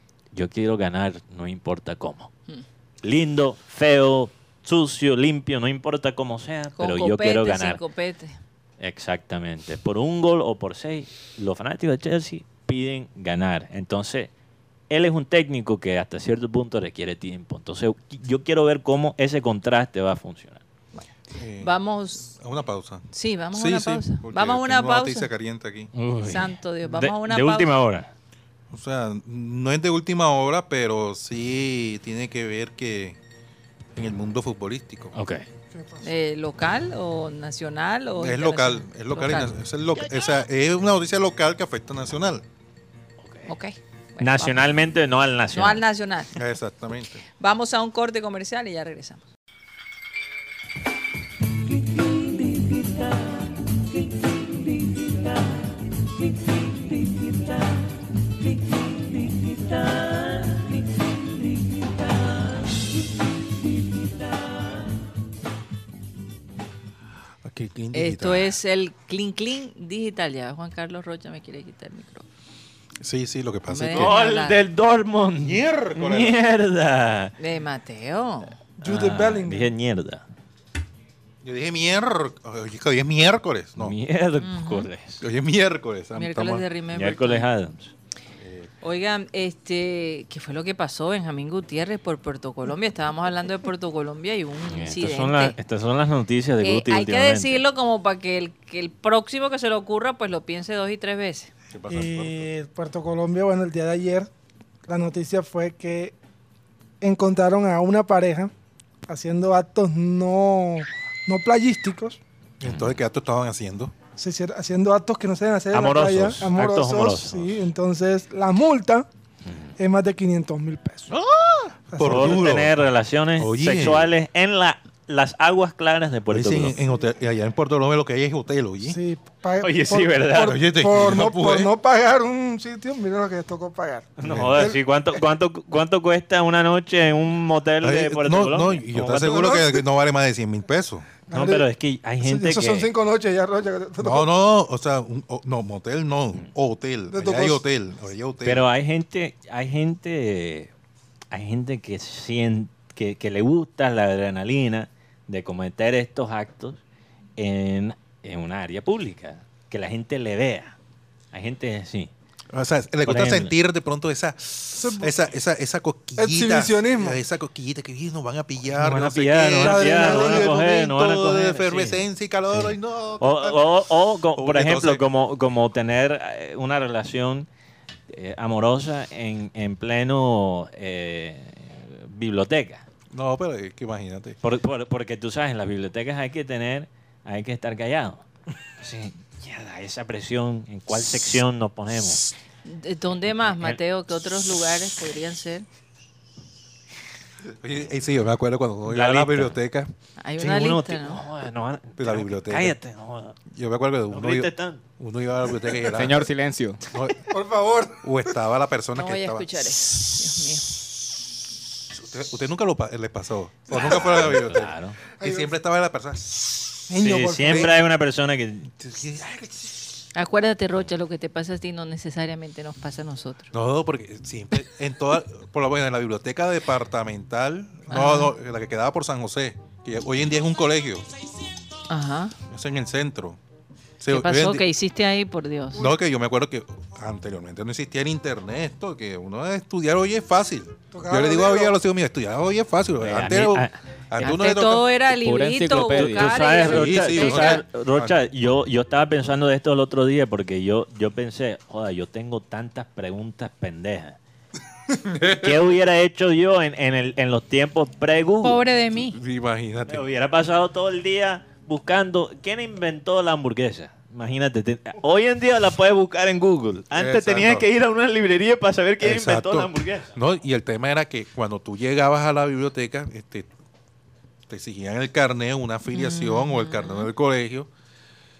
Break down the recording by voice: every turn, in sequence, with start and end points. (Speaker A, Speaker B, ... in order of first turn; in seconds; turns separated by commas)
Speaker A: 0.3-2.3, Speaker A: 3.0-7.8, Speaker B: 6.8-8.4, Speaker A: 8.8-14.3, Speaker A: 14.9-20.6, Speaker B: 20.9-22.3, Speaker C: 21.3-25.9, Speaker B: 23.1-25.3, Speaker A: 25.9-28.1, Speaker B: 26.2-27.7, Speaker C: 28.7-33.2, Speaker C: 33.9-35.1, Speaker A: 35.1-35.4, Speaker D: 35.7-36.0, Speaker B: 36.0-39.5, Speaker C: 38.2-42.4, Speaker A: 43.2-43.5, Speaker B: 43.5-44.6, Speaker A: 44.2-45.8, Speaker B: 45.5-46.4, Speaker C: 46.3-47.2, Speaker B: 47.4-49.3, Speaker C: 67.4-68.5, Speaker B: 67.9-72.2, Speaker C: 73.0-74.2, Speaker B: 73.7-74.6, Speaker A: 73.9-77.3, Speaker C: 75.4-76.4, Speaker B: 77.4-78.5, Speaker D: 78.8-79.7, Speaker A: 78.8-80.2, Speaker C: 81.4-84.0, Speaker A: 83.8-85.2, Speaker B: 84.4-84.9, Speaker C: 85.2-86.6, Speaker B: 86.1-87.5, Speaker A: 86.9-87.9, Speaker C: 88.4-88.7, Speaker B: 88.8-95.5, Speaker A: 94.7-97.6, Speaker B: 96.6-101.5, Speaker C: 101.7-102.5, Speaker D: 101.9-104.3, Speaker D: 104.9-106.1, Speaker D: 107.0-108.5, Speaker D: 109.1-112.2, Speaker C: 112.6-113.9, Speaker A: 112.6-113.0, Speaker D: 114.2-119.1, Speaker A: 115.7-117.6, Speaker A: 119.5-119.7, Speaker D: 119.8-121.1, Speaker C: 121.1-122.7, Speaker D: 121.9-122.4, Speaker A: 122.0-126.8, Speaker C: 123.4-124.1, Speaker C: 126.3-129.0, Speaker D: 128.8-134.8, Speaker A: 129.6-130.6, Speaker C: 130.4-131.7, Speaker A: 134.2-139.5, Speaker C: 134.2-134.7, Speaker C: 137.8-141.1, Speaker D: 139.2-139.8, Speaker D: 141.3-141.7, Speaker A: 141.3-142.9, Speaker D: 142.2-144.2, Speaker C: 144.0-148.6, Speaker D: 147.1-147.6, Speaker A: 148.4-150.7, Speaker A: 151.3-156.8, Speaker A: 157.4-160.8, Speaker A: 161.3-162.1, Speaker C: 162.5-173.6, Speaker A: 163.1-163.5, Speaker D: 164.8-165.1, Speaker D: 166.2-167.2, Speaker A: 168.7-177.5, Speaker D: 169.6-170.5, Speaker C: 174.3-175.0, Speaker A: 178.1-182.8, Speaker C: 183.1-184.4, Speaker A: 184.4-188.2, Speaker A: 188.8-192.3, Speaker B: 192.6-195.7, Speaker A: 193.4-193.8, Speaker C: 197.6-199.9, Speaker A: 198.8-199.6, Speaker B: 200.2-201.2, Speaker A: 200.4-203.4, Speaker C: 202.0-202.8, Speaker C: 203.5-206.3, Speaker A: 204.1-204.8, Speaker E: 205.8-206.9, Speaker C: 206.9-207.2, Speaker D: 207.3-208.0, Speaker C: 208.0-209.5, Speaker B: 208.9-210.8, Speaker C: 211.9-216.7, Speaker D: 213.7-214.4, Speaker A: 213.7-215.0, Speaker D: 215.2-215.5, Speaker D: 216.9-217.7, Speaker A: 217.0-218.7, Speaker C: 217.4-217.7, Speaker C: 218.8-219.9, Speaker B: 220.1-223.5, Speaker C: 223.5-231.1, Speaker B: 227.9-228.3, Speaker B: 231.9-232.3, Speaker C: 232.5-233.4, Speaker C: 234.0-234.6, Speaker B: 234.1-235.8, Speaker C: 235.7-244.9, Speaker D: 240.9-241.7, Speaker A: 243.0-243.8, Speaker B: 244.2-247.6, Speaker E: 245.1-246.4, Speaker A: 245.9-254.2, Speaker C: 246.6-248.2, Speaker C: 255.0-255.6, Speaker A: 255.2-258.6, Speaker B: 258.4-259.2, Speaker C: 258.9-260.1, Speaker A: 259.9-270.1, Speaker C: 266.9-267.6, Speaker C: 269.0-273.5, Speaker C: 274.5-277.7, Speaker B: 275.9-277.1